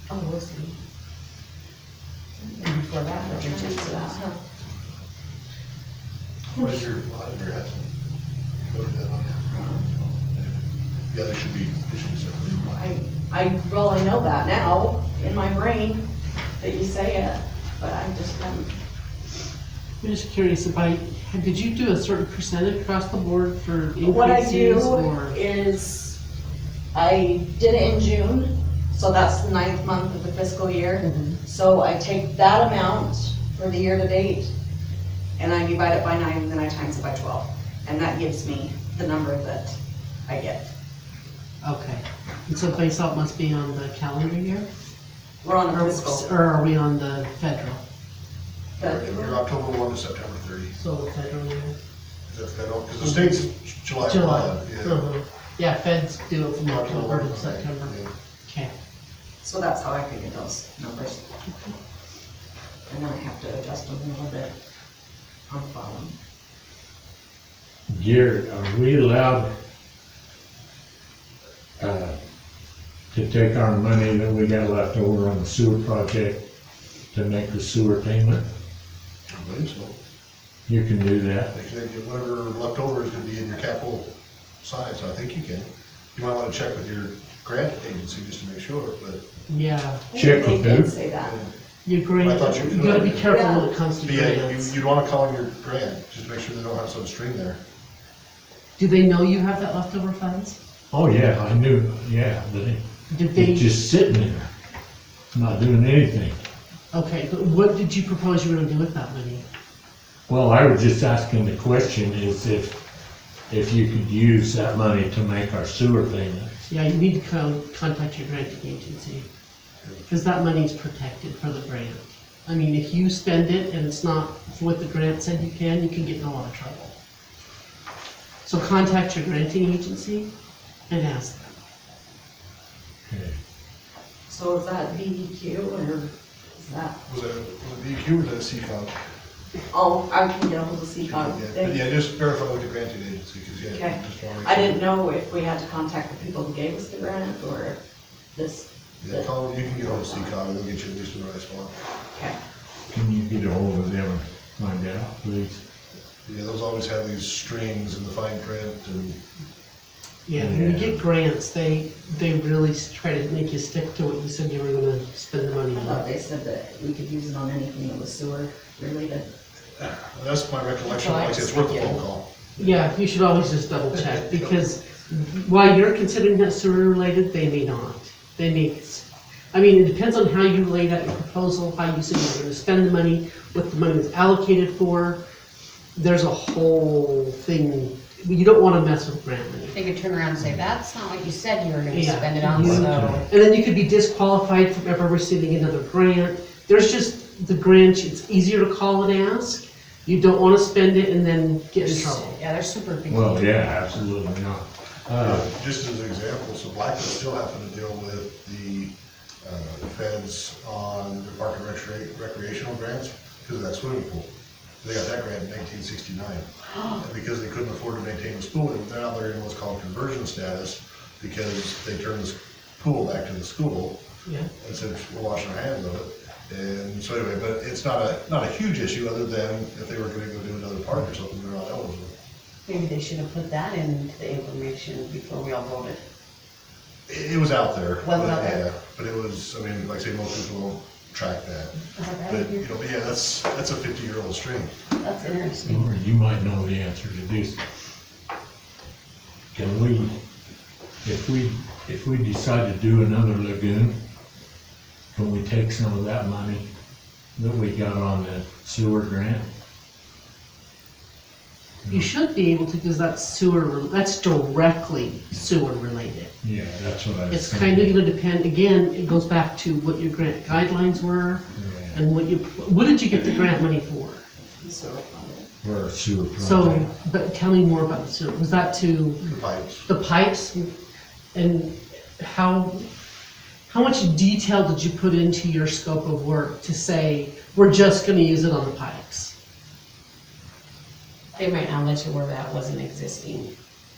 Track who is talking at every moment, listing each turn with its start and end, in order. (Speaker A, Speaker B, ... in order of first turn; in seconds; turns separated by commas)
Speaker A: 0.1-0.7, Speaker B: 2.4-4.3, Speaker A: 2.8-4.2, Speaker C: 6.5-7.9, Speaker C: 8.7-9.4, Speaker B: 9.5-10.0, Speaker C: 10.1-12.8, Speaker B: 12.7-16.1, Speaker B: 16.6-18.7, Speaker D: 20.0-25.4, Speaker B: 24.0-26.2, Speaker B: 26.9-34.5, Speaker B: 35.4-40.7, Speaker D: 41.6-44.7, Speaker B: 45.4-46.3, Speaker D: 45.7-47.8, Speaker B: 48.8-49.4, Speaker C: 48.8-50.7, Speaker D: 50.7-51.7, Speaker C: 52.3-55.0, Speaker D: 53.0-53.5, Speaker D: 54.0-58.0, Speaker C: 56.6-58.1, Speaker D: 58.5-58.7, Speaker B: 59.4-61.2, Speaker D: 61.5-61.7, Speaker B: 62.9-64.5, Speaker B: 65.5-66.1, Speaker E: 67.9-69.5, Speaker E: 71.8-72.2, Speaker E: 73.1-76.4, Speaker E: 77.1-78.4, Speaker C: 79.3-79.9, Speaker E: 80.7-81.5, Speaker C: 81.5-84.1, Speaker C: 84.6-89.2, Speaker D: 89.5-90.0, Speaker B: 90.1-91.4, Speaker E: 90.1-90.9, Speaker C: 91.2-91.5, Speaker D: 91.8-94.7, Speaker C: 92.1-93.4, Speaker B: 93.2-93.7, Speaker C: 94.0-97.6, Speaker D: 98.8-100.6, Speaker E: 100.9-102.8, Speaker D: 103.1-103.7, Speaker E: 103.3-104.5, Speaker E: 105.3-106.4, Speaker D: 106.9-109.4, Speaker E: 110.3-112.8, Speaker E: 113.5-116.5, Speaker D: 116.7-119.2, Speaker C: 119.8-120.1, Speaker D: 120.1-126.9, Speaker D: 128.4-130.3, Speaker D: 130.9-131.5, Speaker E: 133.0-133.3, Speaker B: 134.3-137.0, Speaker C: 137.1-139.0, Speaker B: 139.7-141.8, Speaker C: 141.1-144.8, Speaker B: 143.7-147.8, Speaker B: 148.3-149.3, Speaker C: 149.0-151.7, Speaker B: 149.8-150.2, Speaker E: 152.9-155.6, Speaker C: 156.2-159.2, Speaker D: 160.2-166.0, Speaker E: 160.3-161.0, Speaker B: 165.7-169.3, Speaker C: 170.0-172.3, Speaker A: 170.9-172.0, Speaker D: 172.6-185.2, Speaker D: 185.9-189.8, Speaker A: 189.7-193.2, Speaker D: 191.9-202.3, Speaker E: 192.5-193.2, Speaker A: 201.8-203.7, Speaker E: 203.1-205.5, Speaker C: 205.2-214.3, Speaker C: 214.8-224.0, Speaker D: 224.2-224.5, Speaker C: 224.6-232.1, Speaker A: 232.7-236.0, Speaker C: 237.1-241.8, Speaker A: 238.0-238.5, Speaker A: 241.9-242.6, Speaker C: 242.3-244.8, Speaker A: 245.0-245.9, Speaker E: 245.7-247.6, Speaker E: 249.5-250.1, Speaker E: 251.0-253.9, Speaker E: 255.1-256.7, Speaker E: 257.4-259.5, Speaker D: 261.9-266.3, Speaker E: 266.4-268.0, Speaker D: 267.3-274.2, Speaker E: 271.6-272.0, Speaker B: 274.6-275.5, Speaker E: 275.6-276.9, Speaker D: 276.4-279.2, Speaker C: 279.2-279.9, Speaker D: 279.9-280.7, Speaker D: 281.3-282.9, Speaker D: 283.7-289.3, Speaker A: 291.4-293.5